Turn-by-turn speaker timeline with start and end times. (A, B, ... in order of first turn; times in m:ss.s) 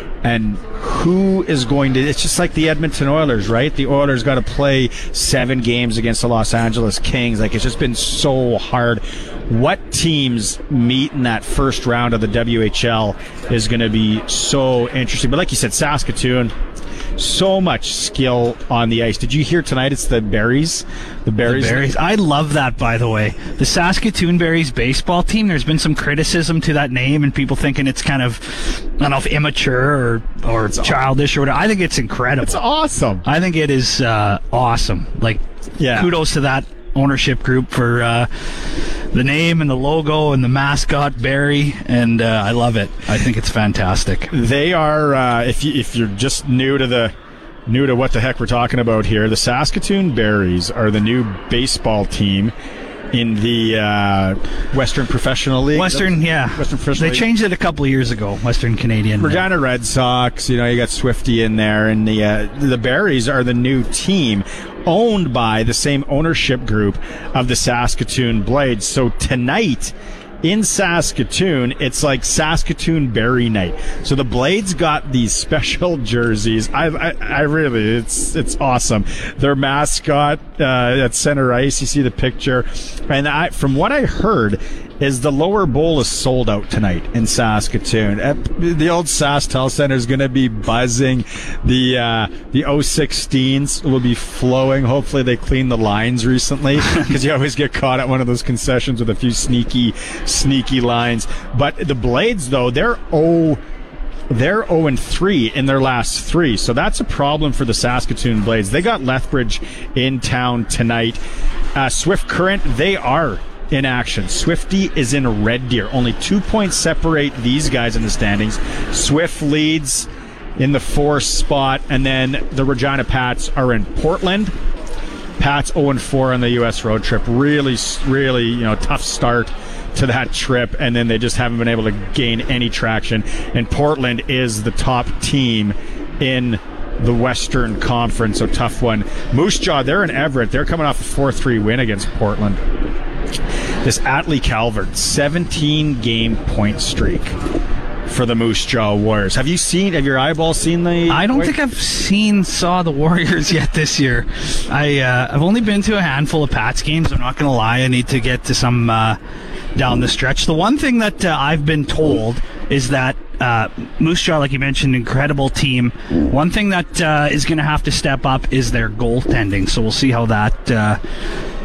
0:00.2-0:16.5 A
0:17.2-0:21.9 A
0:21.4-0:32.6 B
0:30.7-0:31.0 A
0:32.4-0:33.2 A
0:33.2-0:35.4 B
0:35.8-0:36.1 A
0:35.9-0:44.3 B
0:44.3-0:47.1 A
0:47.7-0:52.5 A
0:53.1-0:57.2 A
0:55.7-0:59.4 B
0:59.2-1:43.6 A
1:44.3-1:51.2 A
1:51.8-2:04.5 A
2:05.4-2:22.6 A
2:23.8-2:27.3 A
2:28.1-2:31.5 A
2:31.1-2:39.2 B
2:39.8-2:51.0 B